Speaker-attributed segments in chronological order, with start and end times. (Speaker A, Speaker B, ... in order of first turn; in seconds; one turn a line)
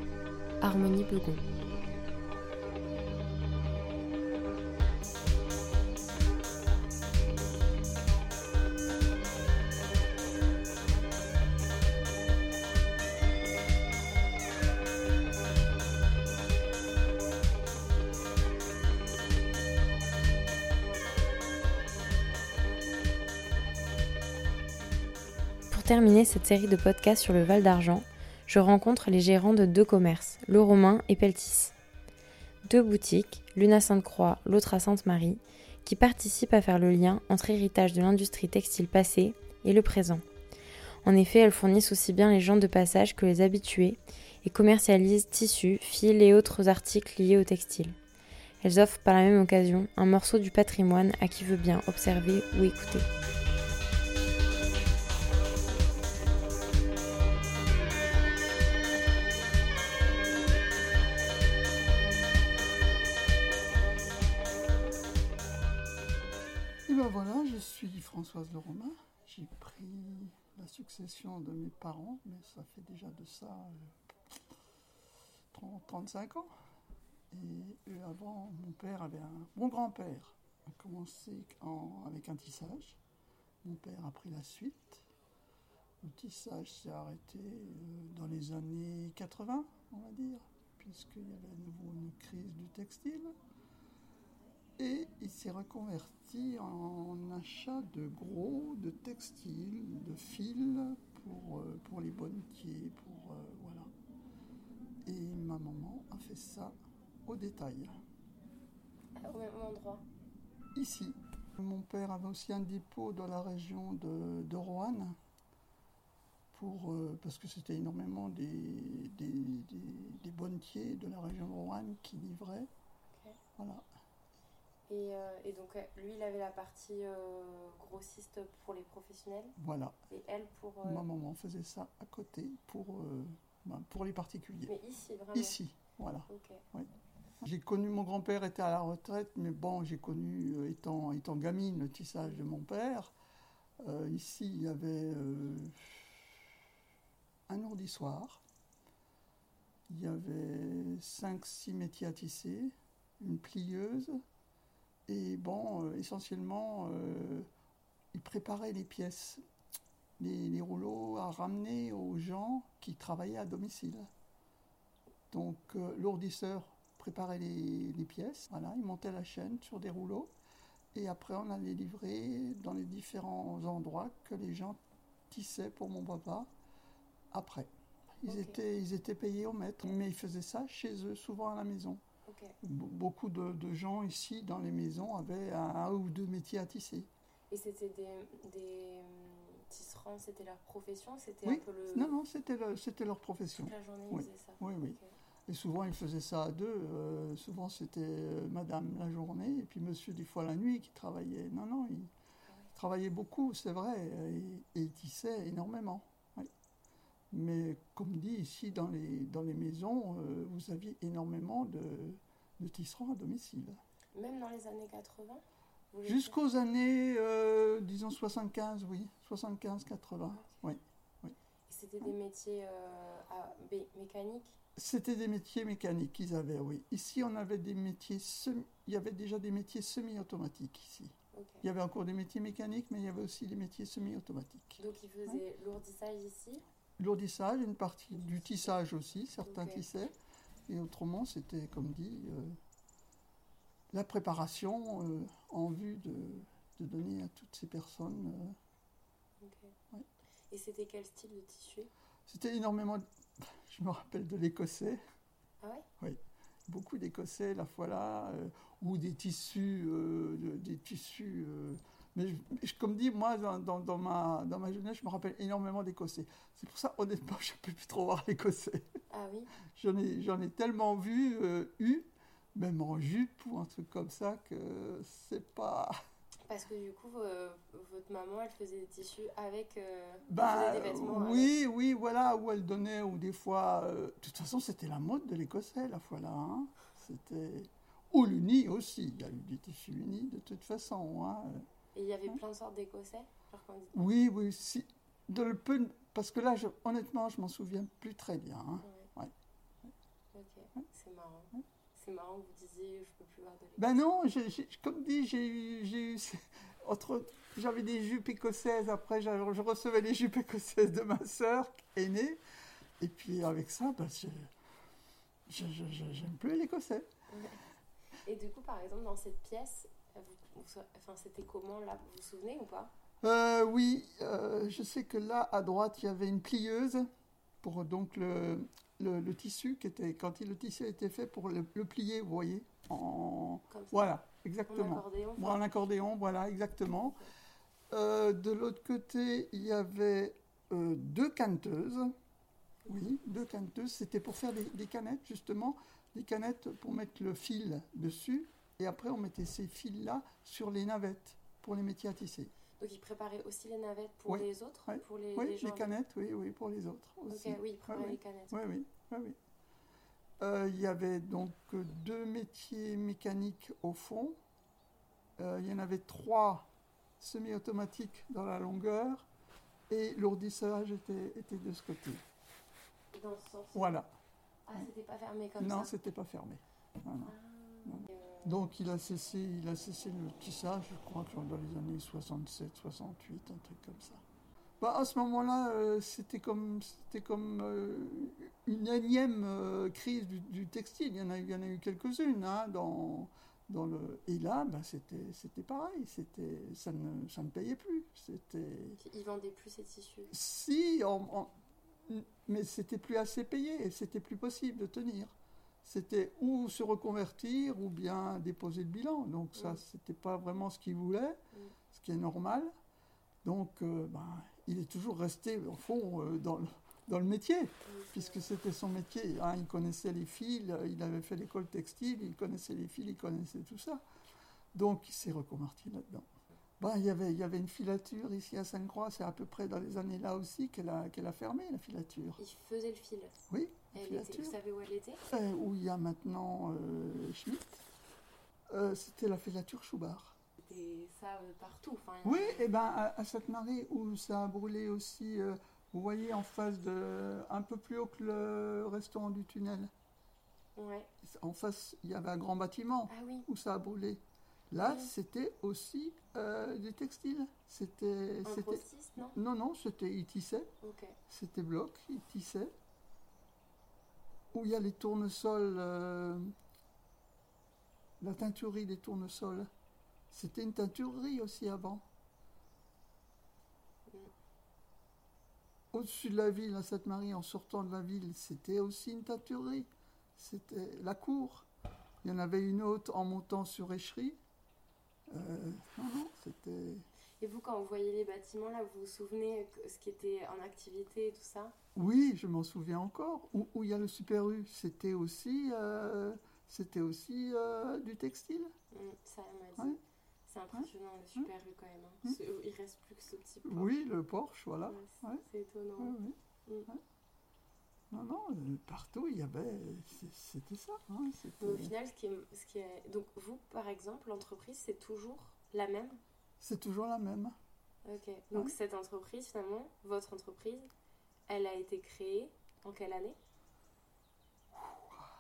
Speaker A: 0.6-1.4
Speaker B: 0.8-1.1
Speaker B: 25.7-31.7
Speaker B: 32.7-40.2
Speaker B: 41.0-48.0
Speaker B: 48.6-53.1
Speaker C: 66.9-73.9
Speaker C: 75.5-76.5
Speaker C: 77.3-83.0
Speaker C: 83.6-85.0
Speaker C: 86.0-93.3
Speaker C: 94.8-103.9
Speaker C: 105.1-106.8
Speaker C: 107.3-108.0
Speaker A: 109.2-110.0
Speaker C: 110.8-115.2
Speaker C: 116.5-122.7
Speaker C: 123.6-123.8
Speaker A: 124.9-129.6
Speaker C: 129.6-130.0
Speaker A: 130.1-131.1
Speaker C: 130.8-134.7
Speaker A: 134.7-135.6
Speaker C: 135.3-136.9
Speaker A: 136.3-136.6
Speaker C: 137.4-143.1
Speaker C: 143.8-146.0
Speaker C: 147.5-148.4
Speaker C: 149.9-154.2
Speaker C: 155.1-157.5
Speaker C: 158.1-159.4
Speaker C: 160.2-164.1
Speaker C: 165.3-170.3
Speaker C: 170.9-174.8
Speaker C: 175.3-176.5
Speaker C: 177.3-177.7
Speaker C: 178.2-182.0
Speaker A: 178.3-178.6
Speaker A: 182.2-182.6
Speaker C: 182.6-187.1
Speaker A: 187.5-192.2
Speaker C: 191.4-202.1
Speaker A: 193.6-195.1
Speaker C: 202.8-206.5
Speaker C: 207.3-213.8
Speaker A: 214.2-216.3
Speaker C: 216.1-221.3
Speaker A: 221.7-224.6
Speaker C: 224.8-235.4
Speaker A: 231.3-231.7
Speaker A: 234.8-236.6
Speaker C: 237.0-240.1
Speaker A: 239.4-239.8
Speaker C: 240.7-242.6
Speaker C: 243.9-248.6
Speaker A: 249.4-249.7
Speaker A: 250.5-251.9
Speaker C: 252.3-255.0
Speaker C: 256.0-268.9
Speaker A: 269.1-269.5
Speaker C: 269.7-275.9
Speaker A: 276.5-281.5
Speaker C: 280.3-291.6
Speaker A: 291.9-294.1
Speaker C: 293.9-299.3
Speaker A: 298.8-299.1
Speaker A: 300.3-303.9
Speaker C: 303.8-312.4
Speaker C: 313.0-314.5
Speaker C: 315.5-317.1
Speaker A: 317.3-317.6
Speaker A: 318.2-322.9
Speaker C: 323.2-327.1
Speaker C: 327.6-337.2
Speaker A: 333.7-334.1
Speaker A: 334.6-335.6
Speaker A: 337.0-337.3
Speaker C: 337.9-342.1
Speaker C: 342.9-352.5
Speaker A: 352.8-355.9
Speaker C: 354.3-359.4
Speaker A: 357.3-358.6
Speaker C: 360.4-364.4
Speaker C: 365.4-366.7
Speaker C: 367.2-369.2
Speaker C: 369.9-372.2
Speaker A: 373.1-374.0
Speaker C: 373.8-374.1
Speaker A: 374.6-375.9
Speaker C: 375.6-377.3
Speaker A: 377.2-378.6
Speaker C: 377.9-384.2
Speaker C: 384.8-399.0
Speaker A: 399.0-400.3
Speaker C: 400.3-401.5
Speaker C: 402.1-411.4
Speaker A: 409.6-409.8
Speaker C: 411.9-412.7
Speaker C: 413.4-424.0
Speaker A: 417.8-418.5
Speaker C: 424.7-426.2
Speaker C: 426.8-432.4
Speaker A: 432.4-435.2
Speaker C: 433.5-434.5
Speaker C: 435.3-437.8
Speaker C: 438.7-440.4
Speaker A: 440.6-442.7
Speaker C: 442.2-449.9
Speaker A: 450.8-451.1
Speaker C: 451.2-458.8
Speaker A: 453.1-453.5
Speaker A: 454.8-455.1
Speaker A: 458.4-459.4
Speaker C: 459.3-460.7
Speaker A: 460.8-461.2
Speaker C: 461.3-462.7
Speaker C: 464.5-466.5
Speaker C: 468.2-469.7
Speaker C: 470.3-472.0
Speaker C: 475.9-481.7
Speaker C: 482.2-484.4
Speaker C: 485.3-487.0
Speaker A: 487.4-491.8
Speaker C: 491.9-498.7
Speaker A: 498.9-504.0
Speaker C: 500.7-501.5
Speaker C: 503.6-505.4
Speaker A: 504.9-506.9
Speaker C: 506.0-506.4
Speaker C: 508.1-511.9
Speaker A: 511.6-516.2
Speaker C: 516.6-517.5
Speaker A: 518.0-520.9
Speaker A: 521.5-523.4
Speaker C: 524.8-525.2